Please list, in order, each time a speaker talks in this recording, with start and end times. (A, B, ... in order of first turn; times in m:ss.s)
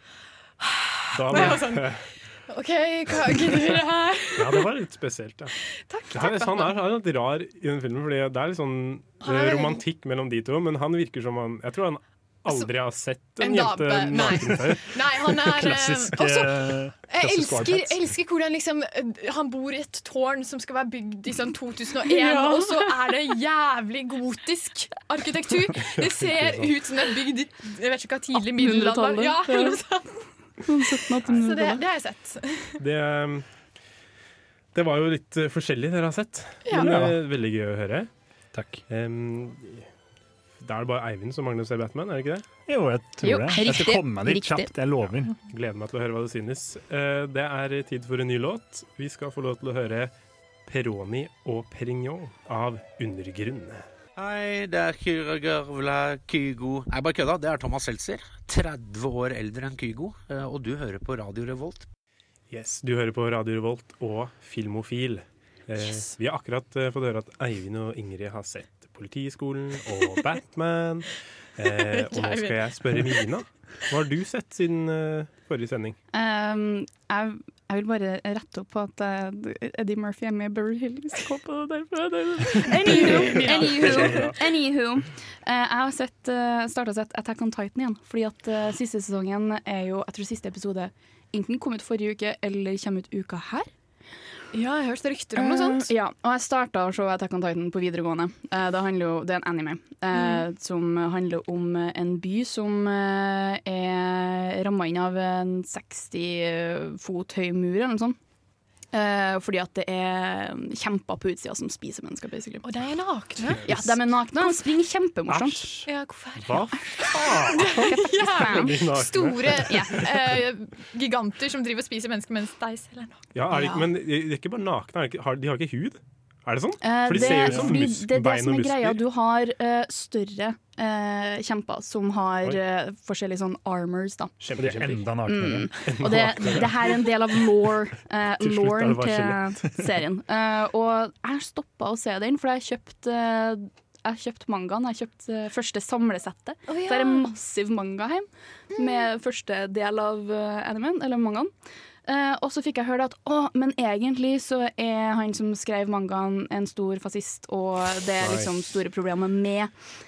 0:00.6-0:04.7 A
0:01.2-0:02.1 B
0:04.4-0:05.6 B
0:05.8-0:06.8 A
0:06.1-0:15.4 B
0:09.2-0:09.8 A
0:13.4-0:30.3 A
0:15.3-0:18.0 C
0:22.1-0:22.9 D
0:26.4-0:26.6 C
0:28.4-0:29.8 D
0:30.6-0:31.8 D
0:31.3-0:32.8 A
0:32.8-0:33.5 B
0:34.7-0:38.1 B
0:36.7-0:36.9 A
0:36.7-0:37.2 C
0:38.5-0:38.8 C
0:38.9-0:39.9 B
0:40.6-0:42.4 B
0:42.7-0:45.3 C
0:43.2-0:44.7 D
0:45.5-0:50.1 B
0:50.7-0:53.8 B
0:54.2-1:01.9 E
1:02.5-1:16.0 B
1:11.7-1:13.2 A
1:16.1-1:33.7 D
1:22.7-1:24.3 A
1:23.0-1:24.4 C
1:34.5-1:35.9 A
1:35.4-1:48.2 D
1:40.1-1:40.4 A
1:48.9-1:52.7 D
1:52.6-1:54.6 A
1:53.4-1:53.8 B
1:53.6-1:55.7 D
1:55.3-1:57.8 B
1:55.9-2:03.6 A
1:56.8-1:58.9 D
1:58.4-2:00.4 B
1:59.6-2:00.0 D
2:03.3-2:09.0 B
2:03.5-2:03.9 D
2:06.8-2:14.3 D
2:07.1-2:07.8 C
2:14.4-2:15.1 B
2:14.6-2:15.7 C
2:15.2-2:31.5 D
2:15.8-2:17.1 B
2:18.4-2:19.8 B
2:26.7-2:27.3 A
2:28.8-2:29.0 A
2:32.0-2:39.7 D
2:38.2-2:38.5 B